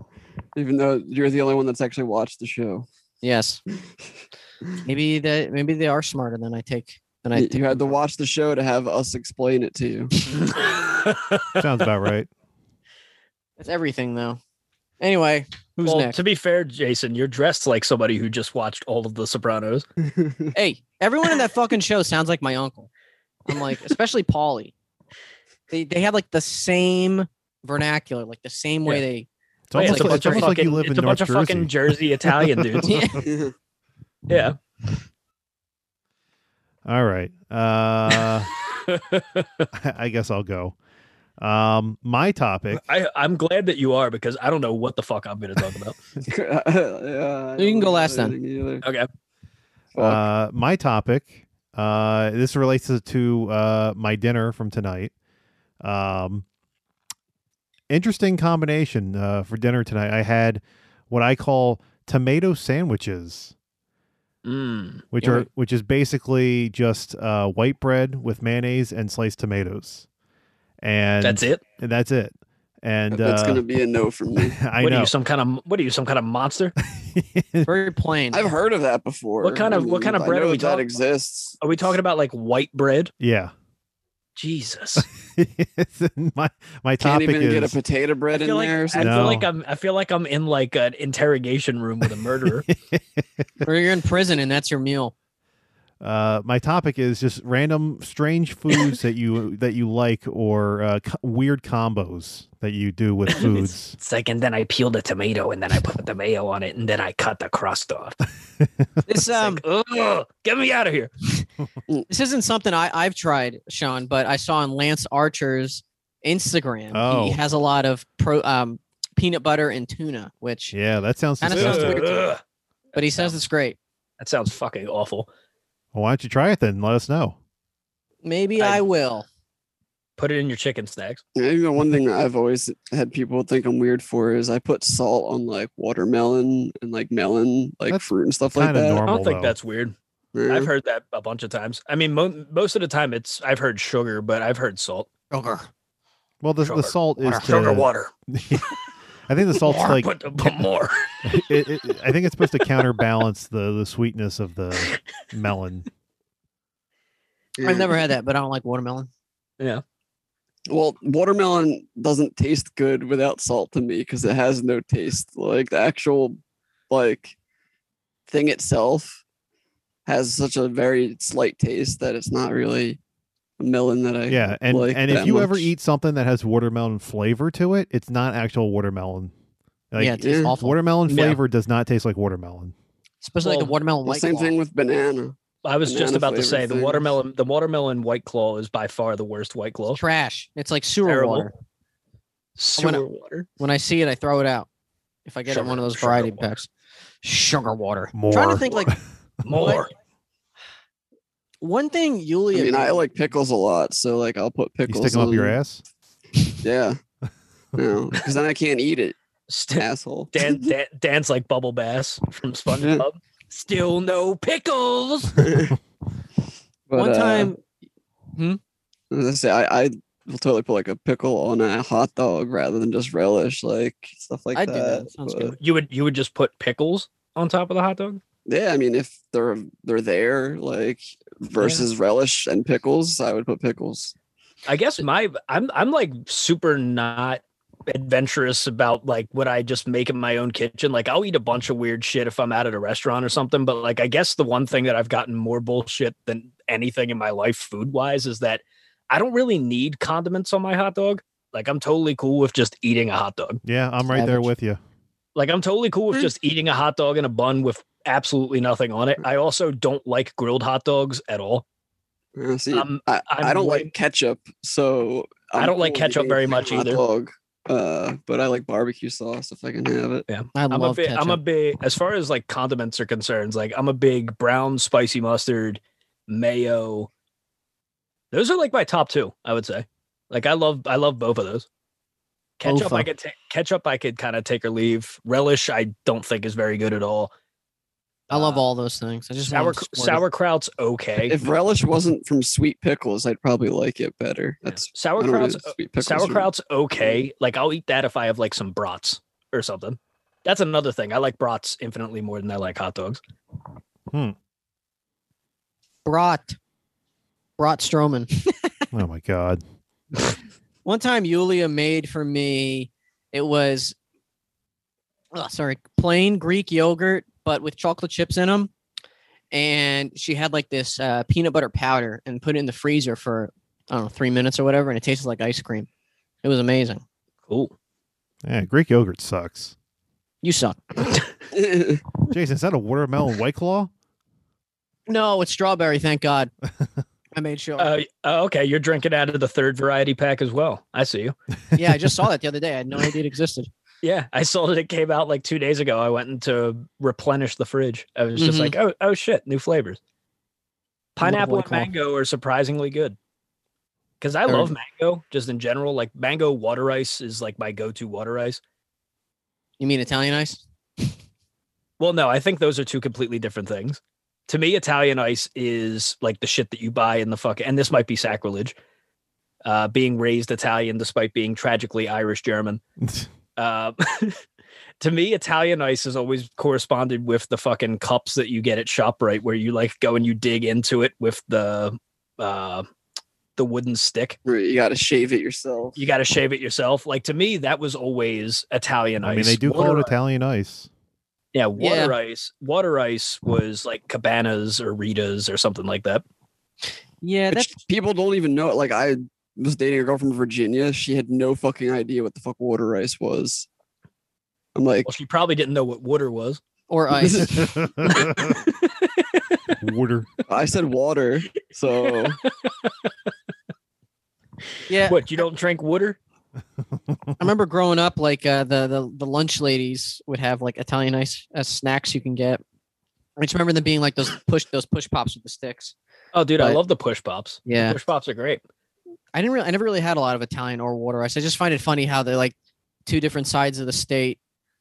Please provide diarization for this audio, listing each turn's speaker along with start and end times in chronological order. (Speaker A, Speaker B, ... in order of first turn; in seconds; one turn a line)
Speaker A: 0.6-2.9
Speaker B: 3.2-3.6
Speaker B: 4.8-7.9
Speaker A: 7.3-10.2
Speaker C: 10.4-11.6
Speaker D: 11.6-12.3
Speaker B: 13.6-14.4
Speaker B: 15.0-16.2
Speaker C: 15.8-19.9
Speaker A: 20.1-20.5
Speaker B: 20.5-22.9
Speaker B: 23.5-24.7
Speaker B: 25.7-30.6
Speaker D: 29.7-33.2
Speaker C: 29.7-33.0
Speaker B: 32.8-33.2
Speaker A: 33.2-33.5
Speaker C: 34.3-34.6
Speaker D: 36.9-38.5
Speaker C: 38.1-39.7
Speaker D: 39.7-40.8
Speaker D: 41.4-42.8
Speaker C: 42.7-46.0
Speaker A: 46.2-48.8
Speaker B: 47.6-48.4
Speaker C: 48.8-49.1
Speaker A: 50.0-50.3
Speaker D: 50.0-55.1
Speaker D: 55.8-56.5
Speaker D: 57.9-63.5
Speaker C: 64.5-65.5
Speaker D: 65.1-70.0
Speaker D: 70.8-73.6
Speaker C: 71.2-71.6
Speaker A: 73.1-74.6
Speaker D: 74.4-75.1
Speaker C: 74.8-76.7
Speaker D: 76.9-77.7
Speaker B: 77.7-78.5
Speaker A: 78.3-81.9
Speaker C: 79.4-80.9
Speaker C: 81.6-83.1
Speaker D: 83.2-83.5
Speaker C: 84.4-85.1
Speaker D: 85.0-87.8
Speaker A: 87.0-89.4
Speaker C: 88.3-92.7
Speaker D: 89.0-89.5
Speaker D: 92.7-93.6
Speaker B: 93.6-95.1
Speaker D: 96.0-104.0
Speaker C: 103.3-108.2
Speaker D: 108.6-108.9
Speaker B: 109.1-109.6
Speaker C: 109.3-111.1
Speaker B: 112.1-120.8
Speaker D: 116.9-117.4
Speaker D: 120.7-122.0
Speaker B: 121.4-122.3
Speaker C: 121.5-122.4
Speaker B: 123.0-123.8
Speaker C: 123.0-123.3
Speaker C: 124.2-125.3
Speaker D: 125.9-127.4
Speaker B: 128.2-129.3
Speaker C: 130.2-131.2
Speaker A: 131.4-139.0
Speaker D: 137.9-139.6
Speaker C: 139.1-139.9
Speaker A: 140.3-140.7
Speaker C: 140.5-145.1
Speaker B: 145.3-145.7
Speaker D: 146.4-148.7
Speaker C: 146.6-148.1
Speaker B: 147.2-147.5
Speaker D: 149.3-150.1
Speaker B: 149.7-150.0
Speaker C: 149.7-150.9
Speaker D: 151.2-155.9
Speaker A: 157.6-157.9
Speaker B: 157.6-159.1
Speaker A: 160.7-166.4
Speaker A: 166.9-167.3
Speaker A: 168.3-169.2
Speaker A: 170.1-173.0
Speaker A: 173.6-175.7
Speaker D: 174.3-179.3
Speaker D: 179.9-182.7
Speaker B: 180.0-180.8
Speaker A: 180.2-180.5
Speaker C: 181.1-181.4
Speaker B: 183.2-184.6
Speaker C: 183.4-183.7
Speaker A: 184.1-187.1
Speaker C: 185.6-190.0
Speaker B: 189.9-191.5
Speaker C: 191.1-191.5
Speaker C: 192.6-193.5
Speaker B: 192.8-193.0
Speaker B: 193.6-194.7
Speaker B: 195.3-196.7
Speaker C: 195.5-196.5
Speaker B: 197.2-198.9
Speaker D: 198.1-199.0
Speaker C: 199.4-199.9
Speaker B: 199.5-199.8
Speaker B: 201.6-203.0
Speaker A: 202.5-205.6
Speaker D: 204.9-205.8
Speaker A: 206.6-207.0
Speaker A: 207.8-209.2
Speaker C: 209.5-215.5
Speaker A: 209.8-210.6
Speaker A: 212.8-213.1
Speaker A: 215.4-215.8
Speaker A: 216.9-217.5
Speaker B: 216.9-217.6
Speaker A: 219.1-225.6
Speaker B: 224.6-225.6
Speaker C: 225.6-228.2
Speaker A: 228.5-234.1
Speaker C: 231.6-231.9
Speaker C: 234.7-253.6
Speaker D: 253.6-254.8
Speaker B: 254.1-254.5
Speaker C: 255.3-261.6
Speaker A: 262.4-270.3
Speaker C: 262.7-263.9
Speaker C: 265.6-267.0
Speaker C: 270.3-277.1
Speaker B: 270.6-271.4
Speaker C: 278.3-281.7
Speaker C: 282.6-287.3
Speaker B: 282.6-283.1
Speaker C: 288.3-288.6
Speaker B: 288.3-290.2
Speaker C: 289.5-291.4
Speaker A: 291.2-296.5
Speaker C: 294.7-303.2
Speaker B: 306.1-306.6
Speaker B: 307.6-308.7
Speaker D: 308.9-309.6
Speaker B: 310.9-314.0
Speaker B: 315.3-318.7
Speaker B: 319.5-325.9
Speaker B: 326.4-327.0
Speaker C: 327.5-327.7
Speaker D: 328.4-329.7
Speaker B: 330.4-331.1
Speaker A: 331.5-332.0
Speaker D: 332.3-333.9
Speaker B: 335.1-336.5
Speaker B: 337.4-337.9
Speaker C: 337.8-341.4
Speaker D: 341.7-342.0
Speaker B: 341.8-343.7
Speaker C: 344.0-350.0
Speaker B: 348.4-348.8
Speaker C: 351.2-353.2
Speaker B: 351.2-351.9
Speaker C: 354.2-358.6
Speaker B: 354.5-354.7
Speaker B: 359.8-361.1
Speaker C: 362.0-368.8
Speaker C: 369.6-372.8
Speaker D: 373.0-373.3
Speaker C: 373.6-374.4
Speaker C: 375.0-382.9
Speaker C: 383.6-384.4
Speaker A: 384.4-386.0
Speaker C: 386.0-390.1
Speaker D: 389.2-390.9
Speaker C: 391.5-396.2
Speaker B: 391.8-392.1
Speaker B: 397.2-397.8
Speaker A: 397.5-403.7
Speaker A: 404.8-405.1
Speaker C: 405.1-406.6
Speaker B: 406.9-407.8
Speaker A: 407.2-407.6
Speaker D: 407.8-408.6
Speaker C: 408.1-409.7
Speaker D: 409.8-410.3
Speaker A: 410.5-412.4
Speaker C: 411.9-413.1
Speaker B: 414.9-415.2
Speaker C: 415.1-416.2
Speaker B: 417.4-422.6
Speaker B: 423.4-425.9
Speaker C: 426.3-428.6
Speaker B: 427.7-428.0
Speaker B: 429.3-432.6
Speaker B: 433.1-434.4